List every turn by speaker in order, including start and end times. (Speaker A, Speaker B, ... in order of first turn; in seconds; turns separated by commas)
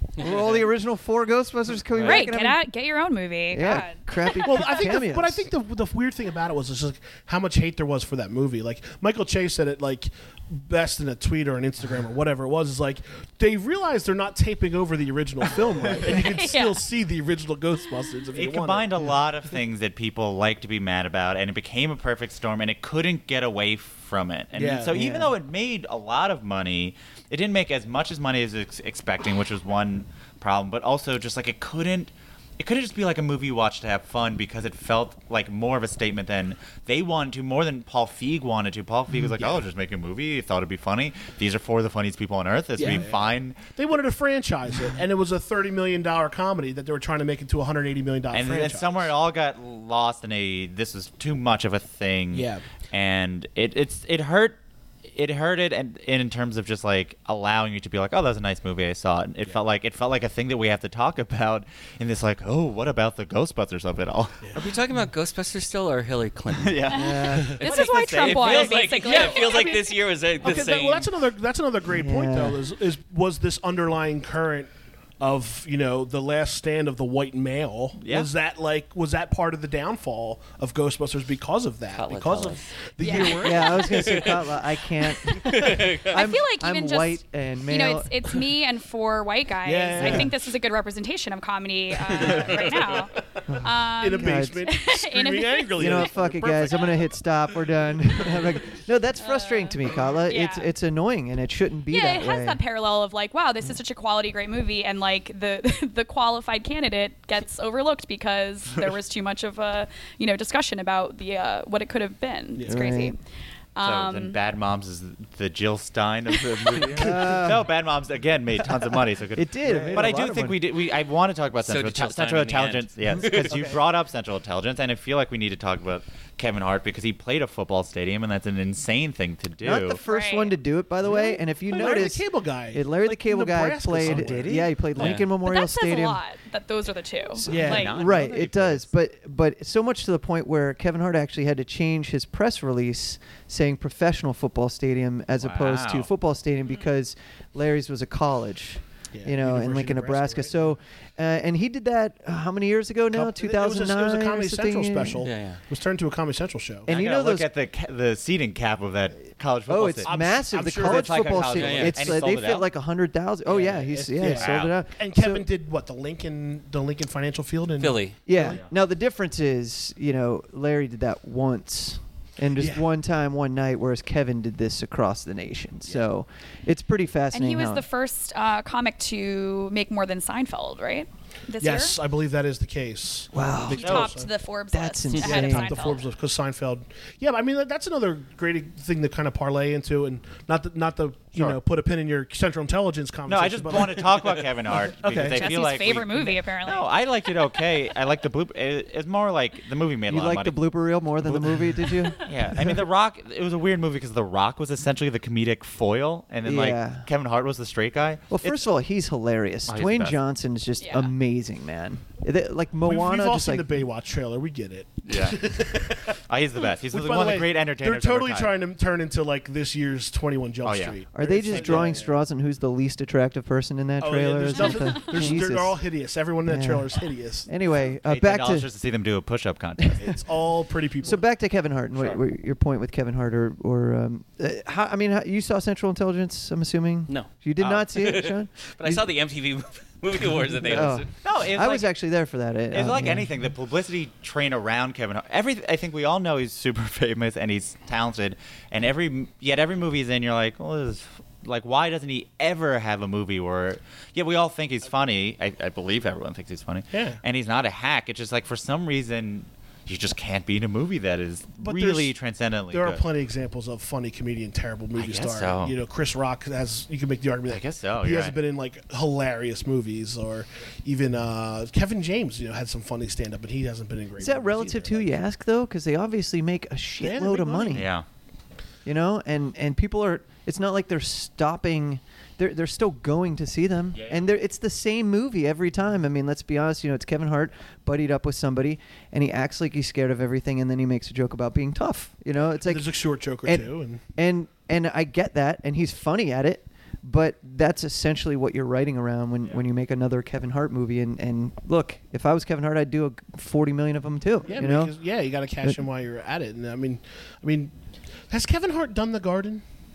Speaker A: 0.2-2.6, Speaker B: 2.0-4.7, Speaker A: 3.5-5.5, Speaker C: 4.4-19.0, Speaker B: 16.0-16.9, Speaker D: 18.4-43.6, Speaker C: 24.6-25.2, Speaker C: 42.8-49.1, Speaker D: 48.3-54.6, Speaker C: 52.3-52.6, Speaker D: 55.1-64.5, Speaker E: 64.5-66.9, Speaker D: 66.6-69.1, Speaker B: 66.9-69.8, Speaker E: 68.1-71.1, Speaker C: 69.1-84.1, Speaker A: 71.9-72.6, Speaker D: 78.0-78.3, Speaker E: 81.9-82.7, Speaker B: 83.0-83.9, Speaker A: 83.1-88.1, Speaker E: 83.8-84.6, Speaker E: 85.2-86.2, Speaker B: 85.5-96.0, Speaker C: 89.6-90.5, Speaker A: 90.0-90.3, Speaker E: 92.1-93.2, Speaker C: 92.3-92.8, Speaker A: 93.5-94.7, Speaker C: 94.0-97.1, Speaker A: 95.8-102.6, Speaker B: 99.2-100.7, Speaker B: 101.9-113.2, Speaker C: 112.6-112.9, Speaker A: 112.7-113.1, Speaker B: 113.8-114.4, Speaker D: 113.8-130.0, Speaker A: 116.9-117.7, Speaker A: 118.7-120.6, Speaker C: 119.6-120.2, Speaker E: 121.6-123.7, Speaker C: 123.4-123.8, Speaker A: 129.6-136.2, Speaker B: 130.0-130.6, Speaker C: 131.1-134.8, Speaker D: 134.0-134.7, Speaker E: 134.9-135.3, Speaker B: 135.3-138.1, Speaker A: 137.4-155.2, Speaker C: 137.5-138.0, Speaker D: 137.5-138.9, Speaker D: 145.4-146.1, Speaker C: 149.1-150.5, Speaker C: 153.1-156.9, Speaker E: 155.2-155.6, Speaker A: 156.9-157.5, Speaker D: 156.9-160.1, Speaker A: 159.7-165.5, Speaker C: 160.1-162.2, Speaker D: 160.7-162.7, Speaker E: 161.6-162.2, Speaker C: 163.5-168.0, Speaker D: 164.3-164.8, Speaker E: 167.8-168.2, Speaker A: 168.3-177.8, Speaker D: 168.4-168.7, Speaker C: 172.6-172.8, Speaker B: 177.3-182.0, Speaker C: 181.6-184.3, Speaker A: 183.3-184.0, Speaker B: 183.7-186.1, Speaker D: 183.7-184.1, Speaker A: 184.7-185.9, Speaker C: 185.2-195.5, Speaker D: 193.3-200.6, Speaker B: 195.2-196.9, Speaker A: 200.1-202.8, Speaker D: 201.3-201.6, Speaker D: 202.1-208.6, Speaker A: 206.4-207.1, Speaker A: 208.3-213.8, Speaker D: 209.7-210.2, Speaker B: 210.8-211.1, Speaker C: 212.8-216.1, Speaker D: 215.1-218.6, Speaker C: 216.9-222.1, Speaker D: 220.6-221.0, Speaker A: 221.1-225.8, Speaker D: 221.5-221.8, Speaker C: 224.0-227.5, Speaker A: 226.5-228.7, Speaker D: 228.1-230.1, Speaker C: 230.0-231.2, Speaker A: 231.0-239.1, Speaker D: 237.6-238.2, Speaker E: 237.9-241.1, Speaker A: 240.6-243.3, Speaker D: 241.2-241.9, Speaker D: 242.7-263.0, Speaker C: 256.9-257.2, Speaker C: 261.6-262.1, Speaker C: 262.7-275.1, Speaker D: 265.0-265.8, Speaker D: 267.5-268.4, Speaker A: 274.2-277.9, Speaker C: 277.0-277.9, Speaker D: 277.7-278.1, Speaker A: 278.9-292.9, Speaker D: 283.9-284.2, Speaker C: 292.6-294.0, Speaker A: 293.4-304.9, Speaker C: 304.5-307.7, Speaker C: 308.3-309.6